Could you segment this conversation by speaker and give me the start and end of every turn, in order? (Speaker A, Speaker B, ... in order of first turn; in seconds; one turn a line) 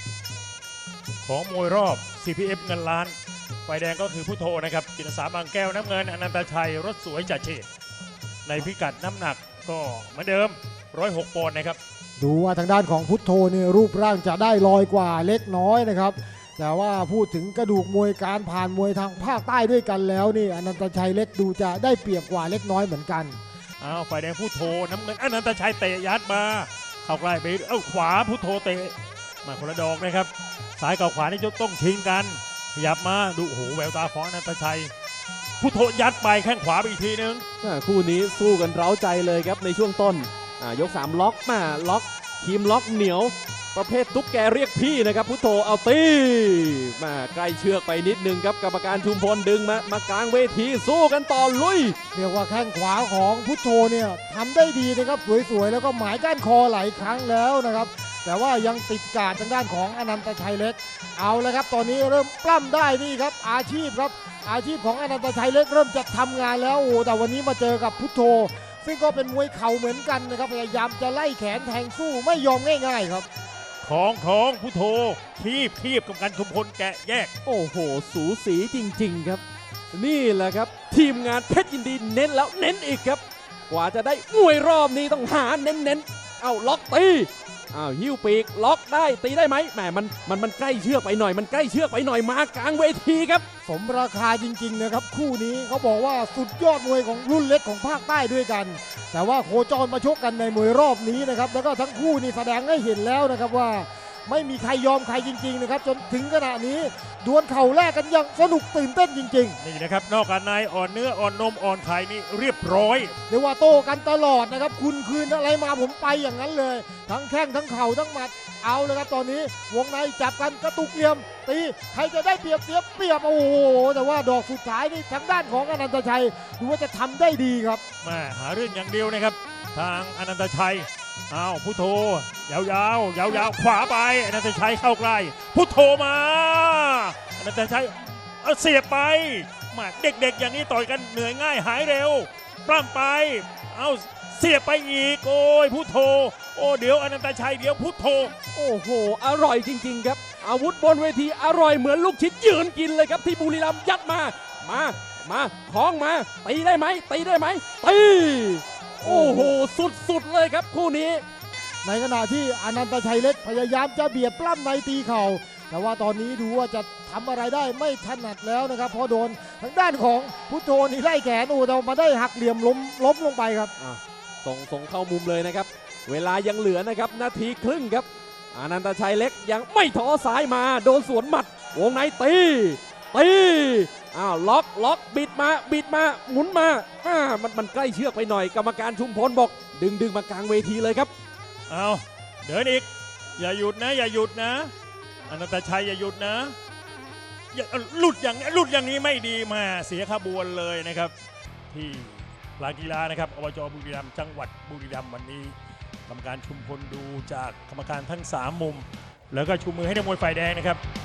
Speaker A: 1.2-3.1
Speaker A: 3.7-7.7
Speaker A: 8.5-11.8
Speaker B: 12.2-23.4
Speaker A: 23.8-34.9
Speaker A: 35.6-37.5
Speaker C: 37.6-52.0
Speaker B: 52.1-73.3
Speaker A: 73.8-77.3
Speaker C: 77.5-93.5
Speaker B: 93.7-109.6
Speaker A: 109.6-113.1
Speaker B: 113.3-127.8
Speaker A: 128.0-148.3
Speaker C: 148.5-161.2
Speaker B: 159.1-159.5
Speaker B: 161.8-173.7
Speaker C: 173.8-191.1
Speaker A: 191.7-194.7
Speaker A: 195.3-196.6
Speaker A: 197.5-201.1
Speaker A: 201.7-205.5
Speaker A: 206.1-210.8